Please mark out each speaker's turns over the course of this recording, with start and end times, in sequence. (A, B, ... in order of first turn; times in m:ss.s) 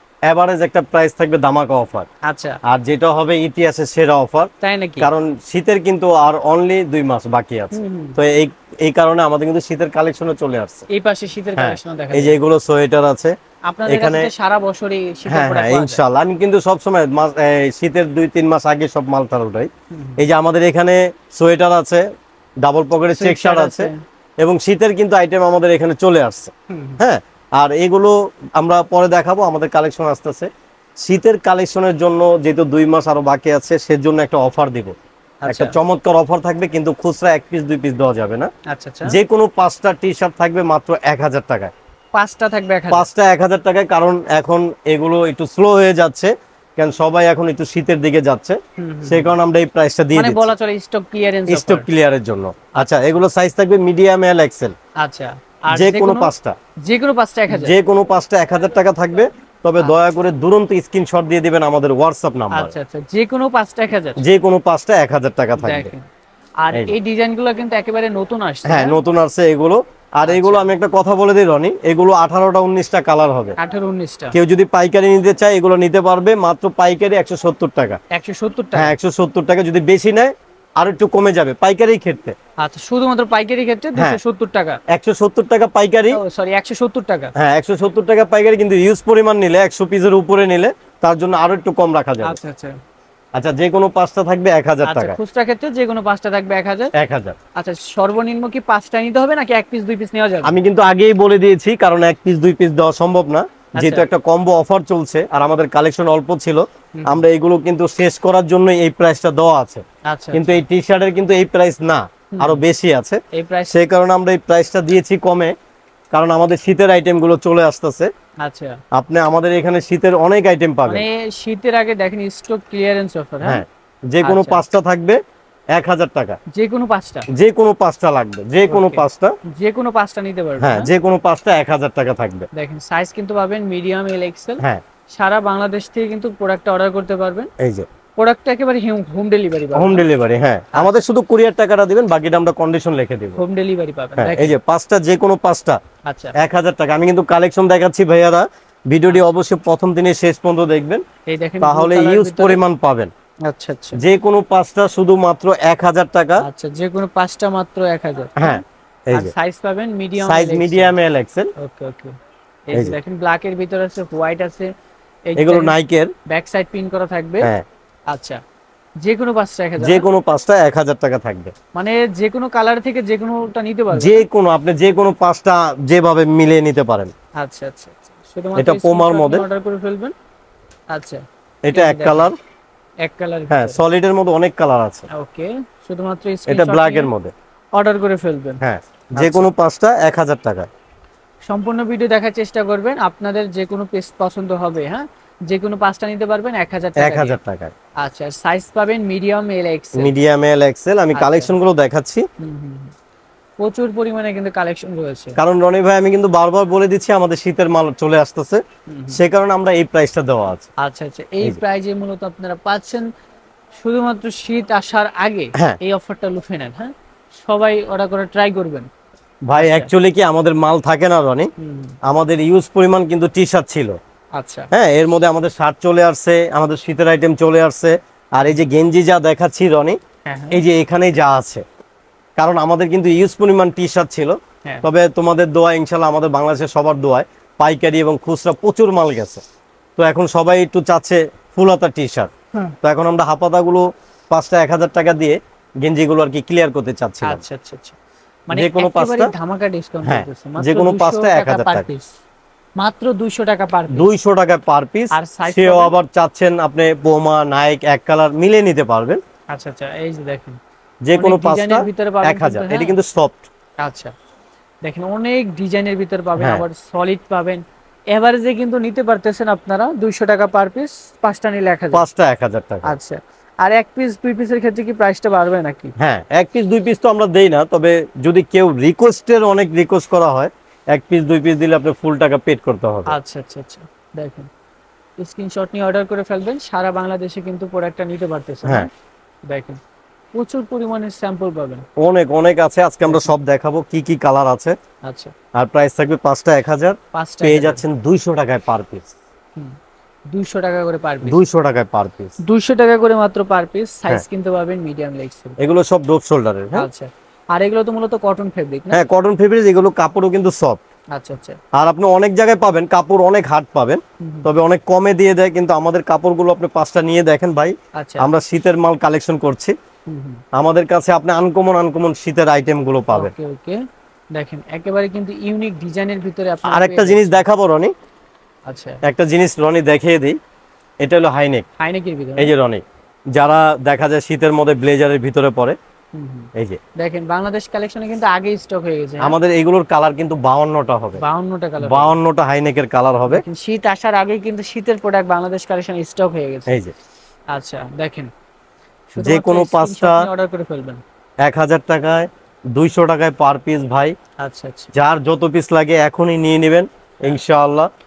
0:00.3-0:02.1 A
0:02.2-0:02.6 B
0:02.6-0:10.8 A
0:04.6-0:05.1 B
0:07.7-0:08.2 B
0:10.9-0:12.4 B
0:11.6-0:13.3 A
0:13.6-0:16.0 B
0:13.8-0:14.3 A
0:15.3-0:22.1 A
0:19.9-0:20.2 B
0:22.6-0:34.9 A
0:23.1-0:24.0 B
0:26.7-0:27.0 B
0:35.4-0:35.8 B
0:35.5-0:38.5 A
0:38.7-0:39.2 B
0:39.0-0:41.7 A
0:42.1-0:43.1 B
0:42.9-0:50.5 A
0:48.8-0:49.3 B
0:50.1-0:51.9 B
0:51.5-0:54.7 A
0:52.7-0:53.1 B
0:55.0-0:57.8 B
0:55.7-0:56.6 A
0:57.5-1:02.7 A
1:02.5-1:04.2 B
1:04.2-1:05.9 A
1:05.6-1:06.0 B
1:06.6-1:09.0 B
1:08.6-1:13.6 A
1:10.2-1:10.7 B
1:13.6-1:14.4 B
1:14.3-1:18.0 A
1:18.1-1:18.9 B
1:18.7-1:22.4 A
1:22.6-1:24.8 B
1:23.9-1:24.2 A
1:24.9-1:26.2 A
1:26.1-1:27.3 B
1:27.4-1:32.4 A
1:32.2-1:32.8 B
1:33.3-1:35.2 A
1:34.8-1:36.9 B
1:36.9-1:37.4 A
1:37.6-1:40.6 B
1:40.4-1:55.5 A
1:43.8-1:44.1 B
1:46.9-1:47.2 B
1:50.0-1:50.6 B
1:52.3-1:52.6 B
1:53.3-1:53.8 B
1:56.1-1:58.1 A
1:58.4-1:58.8 B
1:58.9-2:01.0 A
2:00.9-2:03.6 B
2:03.4-2:05.2 A
2:04.2-2:04.6 B
2:05.7-2:06.4 A
2:06.5-2:07.3 B
2:07.3-2:09.3 A
2:08.7-2:10.9 B
2:10.6-2:12.5 A
2:12.5-2:17.5 B
2:17.6-2:17.9 A
2:18.2-2:20.0 B
2:19.7-2:23.4 A
2:20.7-2:21.0 B
2:23.4-2:24.5 B
2:24.2-2:25.8 A
2:26.0-2:26.4 B
2:26.4-2:31.0 A
2:31.2-2:32.6 B
2:31.6-2:33.1 A
2:33.4-2:34.0 B
2:33.9-2:36.4 A
2:36.4-2:40.9 B
2:38.4-2:39.3 A
2:40.2-2:41.5 A
2:41.6-2:42.1 B
2:42.7-2:44.7 B
2:45.3-2:45.8 B
2:45.4-2:46.1 A
2:46.3-2:47.5 B
2:48.1-2:48.4 B
2:49.0-2:50.0 B
2:49.8-2:51.5 A
2:51.7-2:54.2 B
2:53.9-2:57.1 A
2:57.4-3:00.1 B
2:58.6-2:59.4 A
3:00.9-3:02.3 B
3:01.6-3:02.4 A
3:03.0-3:03.8 B
3:03.5-3:05.1 A
3:05.1-3:07.1 B
3:06.5-3:07.3 A
3:07.7-3:08.6 B
3:08.6-3:10.7 A
3:09.2-3:09.5 B
3:11.4-3:17.4 B
3:17.0-3:17.7 A
3:18.0-3:20.1 B
3:19.9-3:22.3 A
3:21.1-3:21.6 B
3:22.4-3:22.9 B
3:23.6-3:25.4 B
3:25.4-3:30.7 A
3:28.9-3:29.2 B
3:30.8-3:33.1 B
3:33.8-3:38.9 B
3:39.5-3:41.5 A
3:39.5-3:39.9 B
3:41.6-3:42.0 B
3:42.0-3:44.0 A
3:44.4-3:44.7 B
3:44.7-3:50.0 A
3:50.2-3:50.6 B
3:50.5-3:51.6 A
3:52.4-3:59.4 A
4:00.0-4:02.3 A
4:02.8-4:07.4 A
4:07.2-4:08.0 B
4:08.5-4:12.2 B
4:08.5-4:09.3 A
4:10.0-4:11.9 A
4:12.8-4:14.1 B
4:13.9-4:19.2 A
4:15.1-4:15.9 B
4:19.5-4:20.6 B
4:21.0-4:23.5 A
4:21.1-4:23.0 B
4:23.8-4:24.1 B
4:24.8-4:32.0 B
4:26.4-4:26.6 A
4:31.9-4:32.9 A
4:32.8-4:35.9 B
4:36.0-4:43.1 A
4:43.1-4:44.5 B
4:45.2-4:48.9 B
4:49.5-4:49.8 B
4:50.3-4:51.8 B
4:52.0-4:54.8 A
4:53.0-4:53.3 B
4:55.0-4:55.3 B
4:55.5-4:59.1 A
4:57.1-4:57.8 B
5:00.3-5:01.4 B
5:01.2-5:02.3 A
5:02.4-5:05.6 B
5:05.6-5:06.9 A
5:06.7-5:09.0 B
5:08.9-5:10.8 A
5:11.1-5:11.6 B
5:11.7-5:19.7 A
5:14.2-5:14.5 B
5:17.9-5:18.3 B
5:20.1-5:20.4 B
5:20.5-5:23.3 A
5:23.1-5:23.8 B
5:24.3-5:27.4 B
5:26.6-5:27.9 A
5:28.7-5:29.0 B
5:29.0-5:30.4 A
5:31.0-5:31.6 A
5:31.8-5:32.5 B
5:32.4-5:32.8 A
5:33.3-5:35.8 A
5:36.1-5:39.4 B
5:39.2-5:41.2 A
5:41.2-5:42.2 B
5:41.8-5:43.4 A
5:43.3-5:46.8 B
5:46.7-5:46.9 A
5:47.5-5:48.3 B
5:49.1-5:51.0 B
5:49.2-5:50.3 A
5:51.4-5:54.1 A
5:54.4-5:54.9 B
5:54.9-5:57.9 A